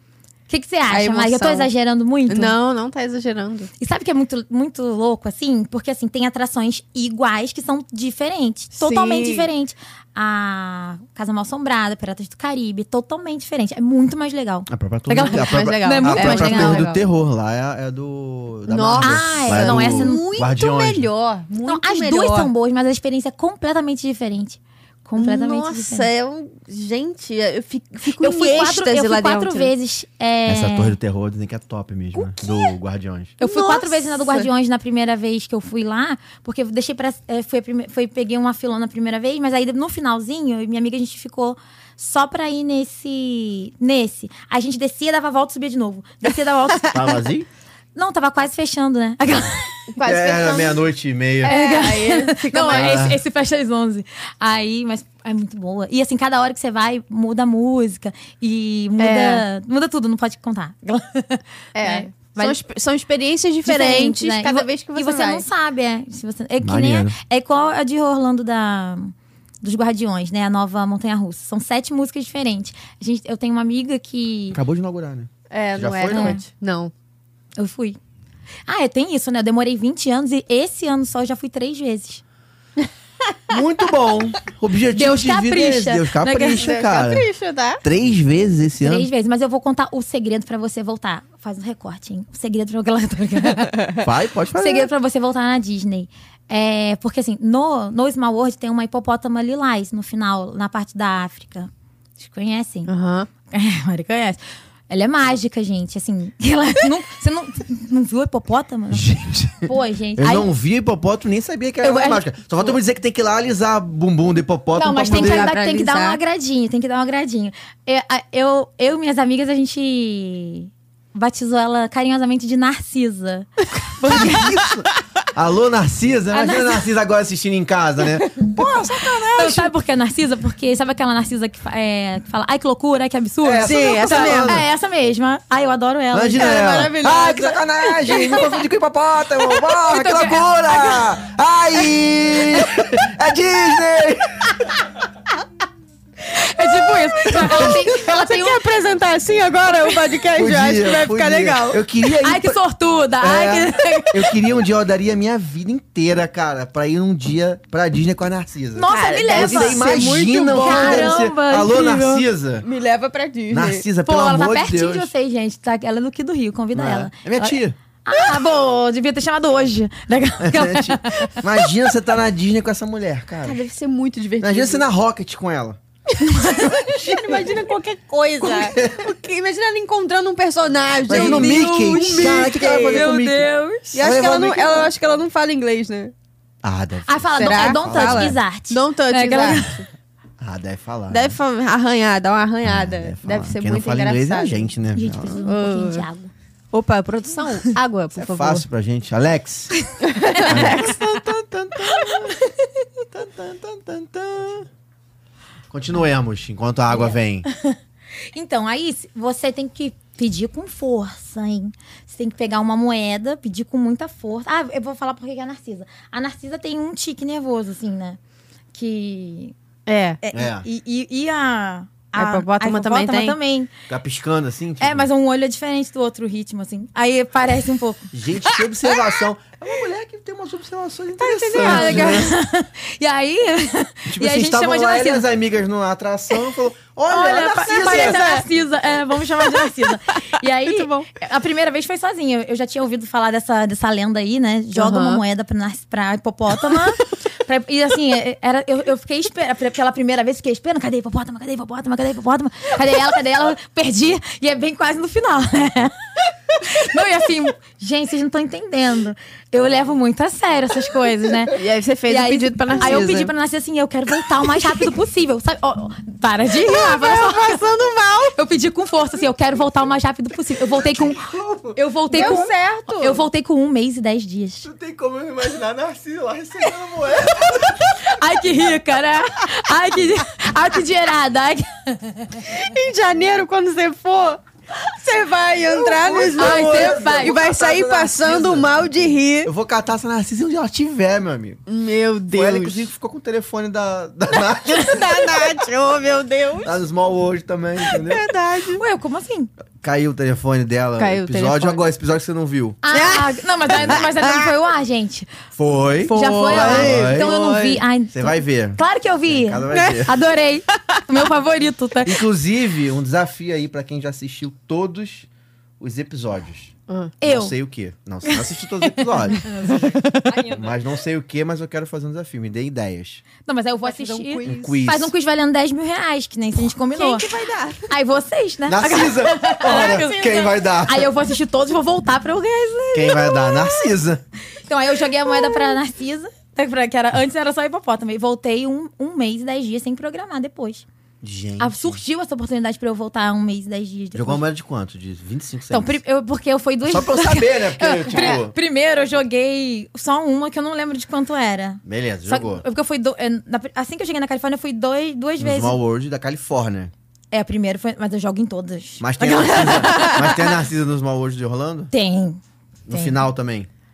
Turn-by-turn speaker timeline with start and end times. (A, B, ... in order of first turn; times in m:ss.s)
0:00.5-0:02.6 A
0:00.9-0:01.7 B
0:02.3-0:03.7 B
0:03.8-0:16.9 A
0:08.7-0:09.5 B
0:14.7-0:21.1 C
0:15.1-0:17.0 B
0:18.7-0:22.5 B
0:19.0-0:20.3 A
0:21.6-0:26.1 A
0:25.2-0:29.7 B
0:28.2-0:31.0 A
0:30.5-0:33.4 C
0:32.2-0:32.7 B
0:33.4-0:34.5 B
0:33.4-0:47.2 A
0:46.9-0:47.5 C
0:47.9-0:49.8 A
0:49.9-0:50.8 B
0:50.0-0:51.5 C
0:51.4-0:53.1 B
0:51.4-1:02.6 A
0:52.7-0:53.2 C
0:59.0-0:59.4 B
1:01.7-1:05.4 B
1:03.6-1:14.6 A
1:06.6-1:07.2 C
1:14.5-1:16.4 C
1:15.5-1:16.9 B
1:16.1-1:16.4 A
1:17.6-1:18.0 A
1:18.7-1:22.2 A
1:23.5-1:27.3 C
1:24.9-1:26.7 A
1:26.3-1:27.8 B
1:27.8-1:29.1 C
1:28.8-1:34.0 A
1:34.0-1:34.9 C
1:34.6-1:42.9 A
1:42.8-1:43.3 B
1:43.5-1:50.5 A
1:48.9-1:55.5 C
1:51.8-1:52.3 A
1:54.7-2:04.6 A
1:55.0-1:56.2 B
2:04.1-2:09.7 C
2:06.3-2:06.8 A
2:09.3-2:16.7 A
2:13.4-2:14.7 C
2:13.6-2:14.6 B
2:16.1-2:24.8 C
2:16.4-2:18.3 B
2:19.8-2:21.0 A
2:26.3-2:28.7 A
2:27.3-2:31.8 B
2:27.4-2:27.8 C
2:30.3-2:32.6 C
2:32.2-2:34.4 A
2:33.2-2:42.6 C
2:38.8-2:42.2 A
2:38.9-2:41.2 B
2:42.6-2:43.8 B
2:43.5-2:45.1 C
2:44.0-2:51.4 A
2:46.7-2:47.8 C
2:50.4-2:53.6 C
2:53.4-2:54.8 B
2:54.4-2:55.8 C
2:56.2-2:56.7 A
2:56.3-3:03.1 B
2:56.6-2:57.5 C
2:58.4-2:59.1 C
3:01.1-3:04.9 C
3:01.1-3:03.9 A
3:03.9-3:06.1 B
3:06.6-3:08.4 C
3:07.1-3:09.8 A
3:07.4-3:09.8 B
3:10.4-3:11.4 C
3:11.1-3:14.6 B
3:12.6-3:15.4 C
3:14.9-3:16.3 A
3:15.4-3:16.1 B
3:16.7-3:18.6 B
3:18.2-3:19.8 C
3:20.0-3:20.9 B
3:20.3-3:21.0 A
3:20.4-3:22.4 C
3:21.8-3:22.4 A
3:23.1-3:24.7 C
3:25.7-3:27.4 C
3:27.4-3:27.8 A
3:28.3-3:38.2 A
3:38.7-3:39.5 A
3:39.9-3:40.2 B
3:40.2-3:43.7 A
3:40.3-3:40.6 C
3:42.1-3:43.4 B
3:43.9-3:45.1 C
3:44.8-3:48.6 A
3:48.1-3:52.3 C
3:51.2-3:52.3 B
3:51.5-3:55.2 A
3:54.1-3:58.4 C
3:57.1-4:16.0 A
3:57.6-3:58.4 B
4:00.6-4:01.1 B
4:04.7-4:05.2 B
4:16.6-4:21.6 A
4:21.5-4:23.3 B
4:22.1-4:27.6 A
4:26.6-4:28.4 B
4:28.4-4:34.7 A
4:31.0-4:31.8 C
4:32.1-4:33.2 B
4:34.6-4:37.8 C
4:38.0-4:42.4 A
4:42.4-4:49.5 B
4:45.8-4:48.8 C
4:46.3-4:47.4 A
4:49.4-4:51.6 C
4:51.7-4:52.9 B
4:52.3-4:55.4 C
4:54.6-4:56.7 B
4:56.6-4:58.2 C
4:57.8-4:58.8 B
4:58.8-4:59.5 A
4:59.8-5:02.8 C
5:01.0-5:01.8 B
5:02.8-5:05.3 A
5:02.9-5:04.4 B
5:03.7-5:04.0 C
5:05.5-5:07.3 C
5:06.0-5:07.8 B
5:06.1-5:12.2 A
5:08.1-5:10.2 C
5:09.7-5:10.0 B
5:12.0-5:15.3 C
5:15.8-5:19.5 C
5:16.9-5:17.1 B
5:17.2-5:17.5 A
5:18.3-5:20.6 A
5:20.2-5:20.5 B
5:20.5-5:23.2 C
5:23.4-5:27.3 A
5:23.8-5:24.8 B
5:24.4-5:25.1 C
5:26.9-5:27.9 B
5:27.9-5:33.9 A
5:28.7-5:31.1 C
5:29.7-5:30.1 B
5:32.9-5:34.2 C
5:34.6-5:40.8 A
5:41.2-5:42.0 C
5:41.6-5:44.4 A
5:44.1-5:46.0 C
5:45.7-5:55.8 A
5:46.8-5:48.5 C
5:51.8-5:52.6 C
5:55.4-5:56.9 C
5:57.3-6:00.2 A
5:59.0-6:01.9 C
5:59.2-6:00.5 B
6:01.9-6:03.2 A
6:02.9-6:03.7 C